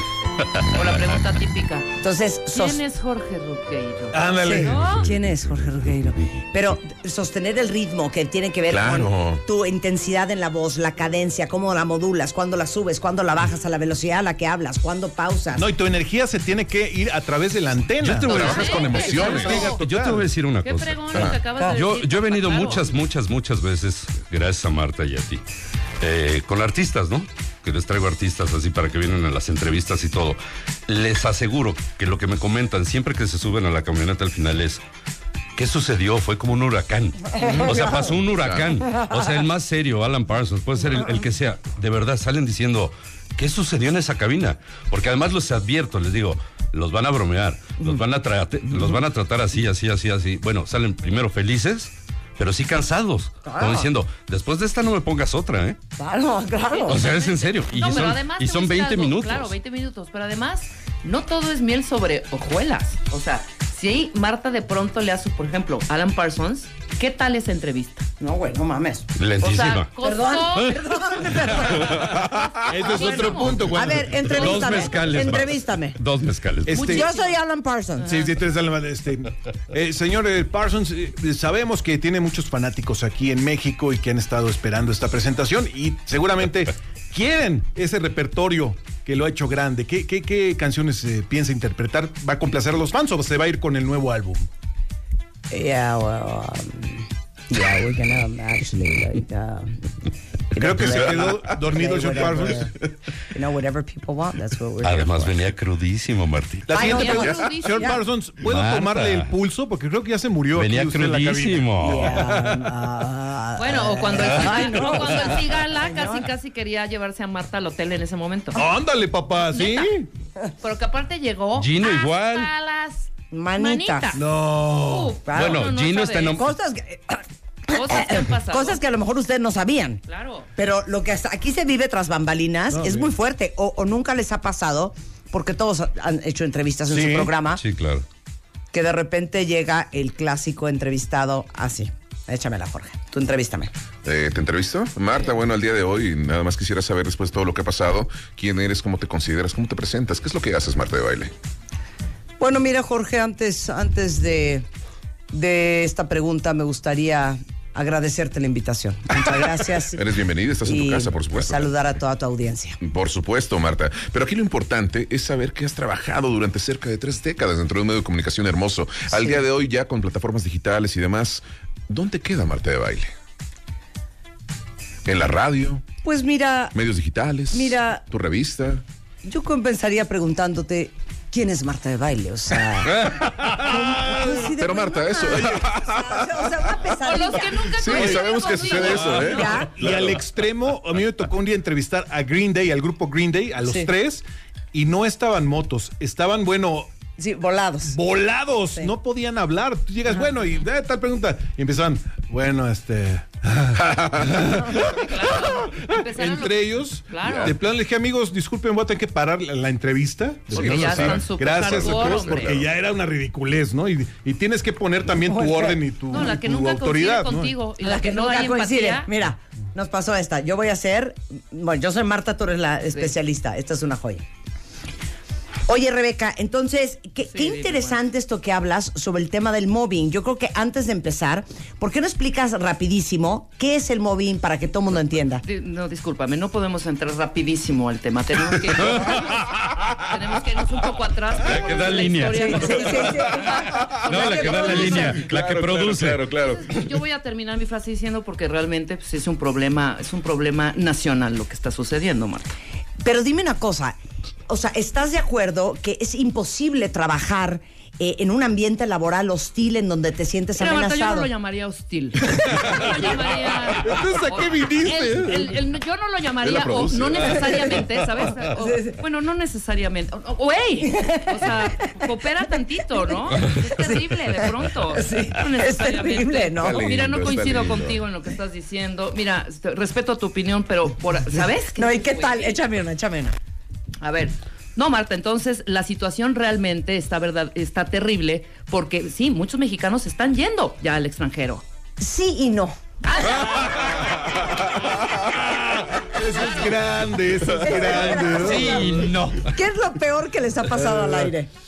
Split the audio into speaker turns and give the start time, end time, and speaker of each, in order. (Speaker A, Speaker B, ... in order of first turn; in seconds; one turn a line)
Speaker A: 0.7-1.9
Speaker B: 2.0-2.8
Speaker A: 2.5-5.0
Speaker C: 4.1-4.9
Speaker B: 4.4-15.7
Speaker D: 4.7-6.4
Speaker E: 8.7-9.4
Speaker C: 15.6-20.3
Speaker D: 18.0-25.4
Speaker E: 18.3-19.7
Speaker A: 18.4-19.5
Speaker A: 20.6-22.9
Speaker D: 26.0-34.8
Speaker D: 35.6-55.8
Speaker E: 38.3-38.8
Speaker B: 53.4-53.9
Speaker B: 56.0-57.0
Speaker A: 56.7-68.1
Speaker D: 56.9-59.5
Speaker B: 68.2-69.1
Speaker D: 69.2-69.9
Speaker A: 69.4-70.8
Speaker B: 70.0-72.0
Speaker A: 72.6-74.3
Speaker C: 72.7-75.3
Speaker B: 73.7-76.0
Speaker D: 74.1-76.8
Speaker C: 76.7-77.1
Speaker A: 76.7-77.3
Speaker B: 76.8-78.2
Speaker C: 78.0-94.5
Speaker B: 95.5-99.8
Speaker B: 100.5-102.7
Speaker C: 100.5-102.7
Speaker B: 103.3-105.4
Speaker D: 104.8-107.1
Speaker C: 106.7-111.8
Speaker B: 106.7-108.0
Speaker A: 106.8-108.0
Speaker D: 108.4-109.3
Speaker D: 110.5-112.7
Speaker B: 111.8-116.2
Speaker A: 113.6-118.7
Speaker C: 118.5-120.1
Speaker A: 119.4-119.9
Speaker A: 120.6-124.2
Speaker D: 121.6-122.5
Speaker B: 123.3-124.2
Speaker C: 124.2-125.2
Speaker A: 124.8-126.4
Speaker B: 125.2-125.6
Speaker D: 125.3-126.5
Speaker B: 126.3-130.0
Speaker A: 127.7-128.8
Speaker A: 130.1-130.5
Speaker B: 130.6-137.6
Speaker C: 132.7-133.1
Speaker C: 136.9-137.3
Speaker D: 137.6-138.0
Speaker B: 138.7-143.7
Speaker E: 144.0-151.3
Speaker B: 152.4-154.7
Speaker B: 155.3-160.0
Speaker E: 159.9-161.7
Speaker B: 160.7-162.8
Speaker E: 162.8-173.1
Speaker E: 175.1-175.8
Speaker B: 176.0-176.8
Speaker E: 176.7-178.8
Speaker B: 177.5-178.0
Speaker B: 179.2-187.5
Speaker C: 183.7-184.4
Speaker E: 184.6-186.5
Speaker A: 187.0-189.6
Speaker E: 187.7-190.2
Speaker B: 188.8-189.7
Speaker C: 189.7-196.9
Speaker B: 197.2-198.0
Speaker C: 197.9-217.6
Speaker E: 203.8-204.8
Speaker A: 204.9-207.6
Speaker E: 207.2-207.6
Speaker E: 210.5-212.7
Speaker A: 210.5-212.7
Speaker B: 215.3-215.8
Speaker A: 216.1-219.1
Speaker B: 217.8-224.2
Speaker B: 225.7-235.4
Speaker A: 227.3-228.0
Speaker A: 235.4-239.4
Speaker D: 239.0-239.6
Speaker A: 240.0-245.2
Speaker D: 241.4-246.3
Speaker B: 242.3-244.9
Speaker E: 243.6-243.9
Speaker E: 244.4-246.8
Speaker A: 246.6-252.5
Speaker B: 253.0-254.0
Speaker B: 254.5-261.3
Speaker A: 260.6-282.6
Speaker C: 262.3-265.6
Speaker E: 266.4-267.6
Speaker B: 268.6-269.0
Speaker B: 270.9-271.5
Speaker B: 273.4-274.0
Speaker B: 274.9-276.9
Speaker E: 276.6-278.0
Speaker B: 281.3-283.4
Speaker A: 284.0-291.6
Speaker B: 292.0-293.4
Speaker A: 293.1-294.0
Speaker C: 295.2-298.9
Speaker B: 297.6-301.5
Speaker D: 298.4-299.5
Speaker C: 300.8-301.3